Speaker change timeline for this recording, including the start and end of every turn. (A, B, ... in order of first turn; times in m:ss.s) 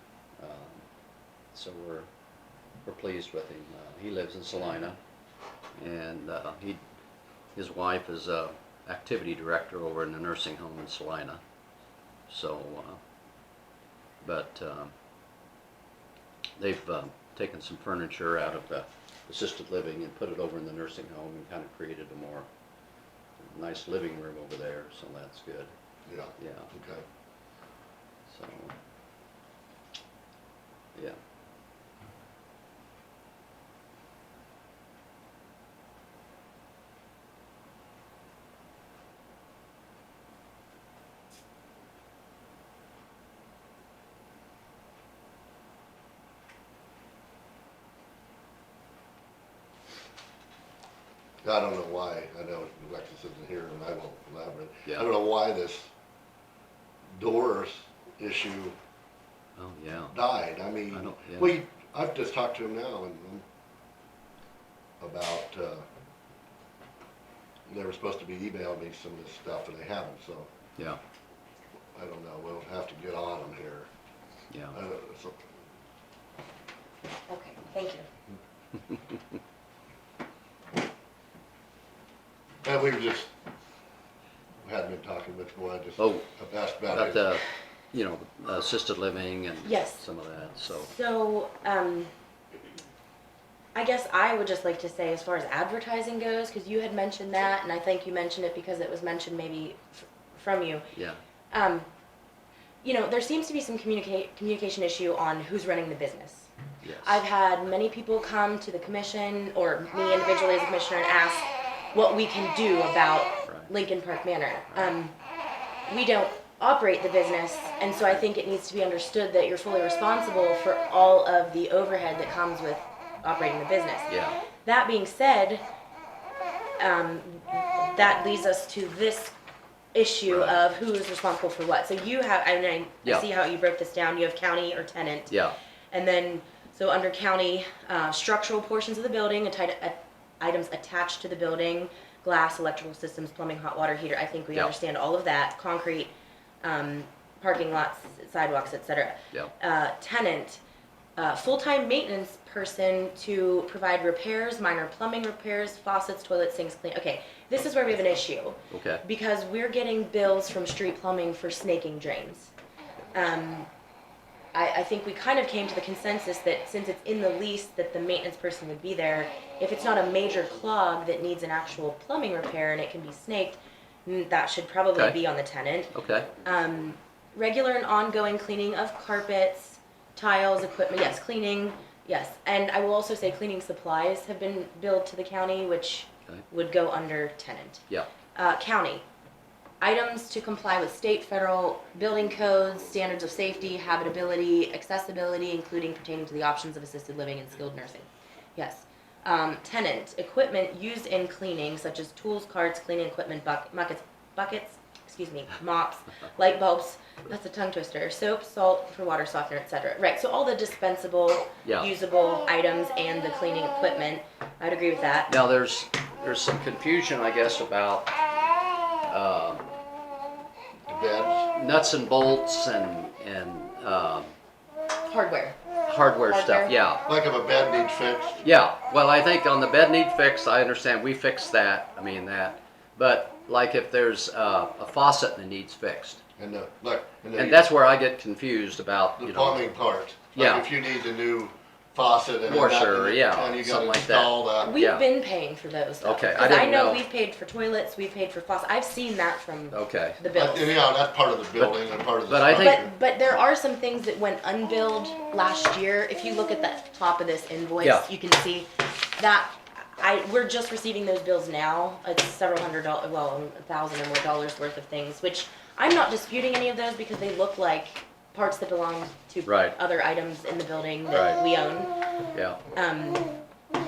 0:00.4-0:00.9 A
0:01.5-0:02.1 A
0:02.8-0:05.0 A
0:05.8-0:06.8 A
0:07.6-0:11.4 A
0:12.3-0:13.0 A
0:14.2-0:14.9 A
0:16.6-0:22.5 A
0:23.4-0:25.7 A
0:26.1-0:27.0 B
0:26.4-0:26.7 A
0:28.3-0:28.7 A
0:51.4-0:55.9 B
0:57.2-0:58.8 B
0:59.6-1:00.1 A
1:00.1-1:03.4 B
1:00.9-1:01.5 A
1:05.0-1:05.8 B
1:07.7-1:10.5 B
1:12.0-1:13.9 B
1:14.5-1:14.8 A
1:14.7-1:15.4 B
1:17.3-1:18.1 C
1:22.6-1:23.3 B
1:24.6-1:27.2 B
1:26.0-1:26.3 A
1:26.9-1:30.9 A
1:29.6-1:30.0 C
1:30.7-1:32.1 C
1:33.8-1:40.9 C
1:40.9-1:41.2 A
1:41.5-1:41.9 C
1:42.8-1:46.5 C
1:46.8-1:47.2 A
1:47.0-1:55.1 C
1:55.9-2:04.1 C
2:04.1-2:04.4 A
2:04.6-2:05.6 C
2:06.8-2:09.3 C
2:09.9-2:15.3 C
2:10.3-2:10.6 A
2:15.3-2:15.5 A
2:15.9-2:30.6 C
2:31.2-2:42.5 C
2:38.7-2:39.0 A
2:43.1-2:43.7 C
2:44.5-3:09.0 C
2:55.9-2:56.3 A
3:09.8-3:35.3 C
3:31.6-3:31.9 A
3:35.3-3:38.2 A
3:39.1-3:39.7 A
3:40.9-3:41.5 B
3:41.5-3:44.3 A
3:45.1-3:45.6 C
3:45.9-3:47.0 A
3:46.3-3:46.8 C
3:47.0-3:48.4 B
3:48.4-3:56.2 A
3:56.4-3:57.6 B
3:57.4-3:59.7 A
3:59.2-4:04.8 B
4:00.3-4:00.7 A
4:02.4-4:05.0 A
4:04.6-4:10.8 C
4:06.0-4:07.0 A
4:09.7-4:10.2 A
4:10.3-4:12.9 B
4:11.6-4:12.9 A
4:12.5-4:31.9 C
4:17.8-4:18.1 A
4:29.5-4:29.8 A
4:31.1-4:31.4 A
4:32.3-4:32.6 A
4:32.8-4:33.3 C